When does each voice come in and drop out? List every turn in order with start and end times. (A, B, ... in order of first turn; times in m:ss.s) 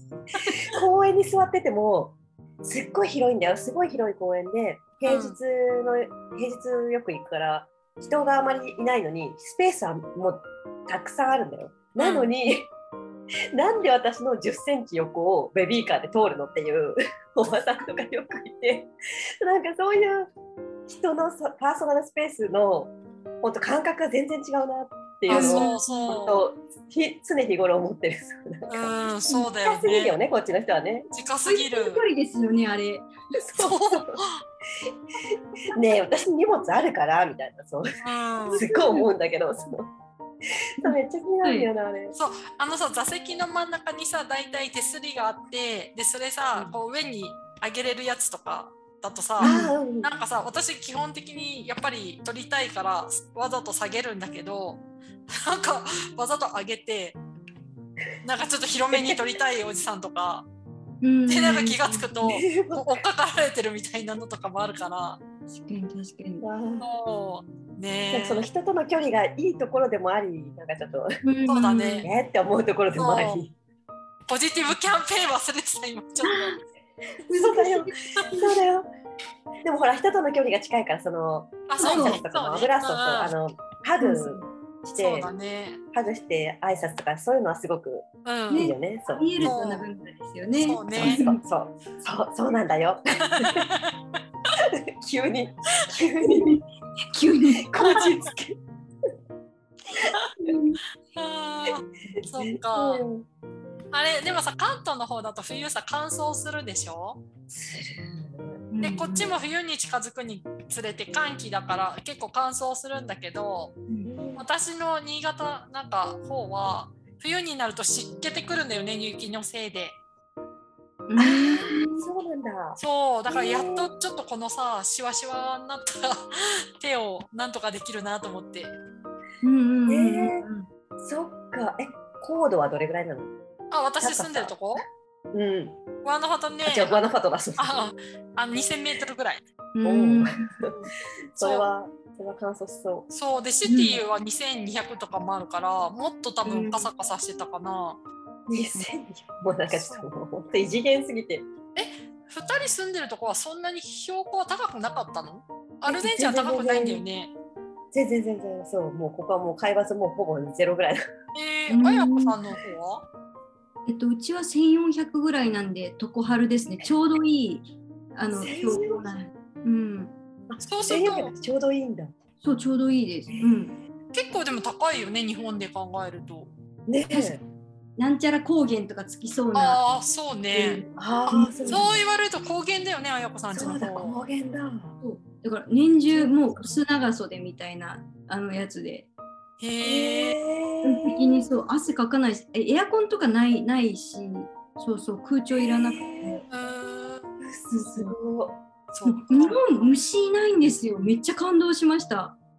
0:00.6-0:12.7 A
0:05.0-0:05.4 B
0:12.0-0:12.3 B
0:13.5-0:18.9 A
0:19.4-0:20.3 A
0:20.9-0:28.9 A
0:25.3-0:26.4 B
0:25.3-0:26.2 C
0:28.7-0:30.2 B
0:29.6-0:31.1 A
0:31.1-0:32.0 B
0:31.4-0:33.1 C
0:33.4-0:34.2 A
0:33.6-0:34.4 B
0:35.7-0:37.9 A
0:38.0-0:38.6 B
0:38.5-0:39.9 A
0:38.5-0:39.1 C
0:40.6-0:42.2 A
0:40.8-0:41.7 C
0:42.1-0:57.2 B
0:49.4-0:49.8 C
0:49.4-0:50.1 A
0:58.2-1:00.4 B
0:58.9-0:59.2 A
1:01.0-1:02.1 C
1:01.3-1:05.2 B
1:02.2-1:03.0 A
1:05.5-1:06.4 C
1:06.4-1:06.9 A
1:06.8-1:08.5 B
1:08.1-1:11.2 A
1:11.2-1:12.1 C
1:11.5-1:12.1 B
1:12.0-1:13.5 A
1:13.0-1:13.4 B
1:14.3-1:16.5 B
1:16.2-1:16.6 C
1:17.3-1:18.0 C
1:17.3-1:18.9 A
1:19.6-1:25.3 A
1:21.7-1:23.3 B
1:21.8-1:22.2 C
1:24.0-1:24.5 C
1:24.9-1:25.8 B
1:25.9-1:29.6 A
1:28.2-1:28.7 B
1:28.5-1:31.4 C
1:29.4-1:29.9 B
1:30.6-1:31.2 B
1:30.9-1:33.7 A
1:33.2-1:34.0 B
1:34.7-1:36.6 A
1:36.2-1:36.6 C
1:37.1-1:37.7 C
1:37.6-1:38.6 A
1:37.8-1:38.1 B
1:40.4-1:40.8 C
1:41.1-1:43.0 B
1:42.3-1:43.2 A
1:43.9-1:47.2 B
1:47.5-1:48.6 A
1:48.7-1:49.3 C
1:48.8-1:53.8 B
1:54.0-1:54.4 A
1:54.4-2:00.0 B
2:01.1-2:02.1 C
2:01.2-2:03.9 A
2:02.8-2:08.7 B
2:09.4-2:10.7 C
2:09.9-2:10.4 A
2:11.0-2:13.3 A
2:13.7-2:14.8 B
2:14.0-2:14.6 A
2:15.3-2:15.8 A
2:16.0-2:17.0 B
2:16.6-2:17.8 A
2:17.6-2:19.4 B
2:19.7-2:20.7 C
2:19.8-2:20.7 A
2:21.4-2:23.1 A
2:21.4-2:21.6 B
2:23.1-2:28.0 B
2:23.6-2:24.0 C
2:26.4-2:26.9 C
2:28.5-2:31.4 A
2:29.7-2:30.0 B
2:31.8-2:37.3 B
2:35.9-2:37.0 A
2:37.9-2:41.0 A
2:41.3-2:43.0 B
2:41.7-2:42.4 C
2:43.9-2:50.1 C
2:48.3-2:49.1 A
2:50.5-2:52.1 A
2:50.6-2:51.3 B
2:52.4-2:53.8 C
2:53.3-2:53.8 A
2:54.1-2:56.5 B
2:56.9-2:57.4 A
2:57.1-2:57.4 C
2:58.0-2:59.8 C
2:59.5-3:00.8 B
3:00.5-3:01.9 C
3:01.0-3:02.0 A
3:01.7-3:04.2 B
3:03.5-3:05.0 A
3:05.0-3:09.1 C
3:09.6-3:10.4 B
3:09.8-3:11.5 A
3:10.8-3:16.4 C
3:15.6-3:16.4 A
3:16.5-3:17.2 B
3:17.4-3:18.6 A
3:18.9-3:19.6 B
3:19.0-3:22.3 C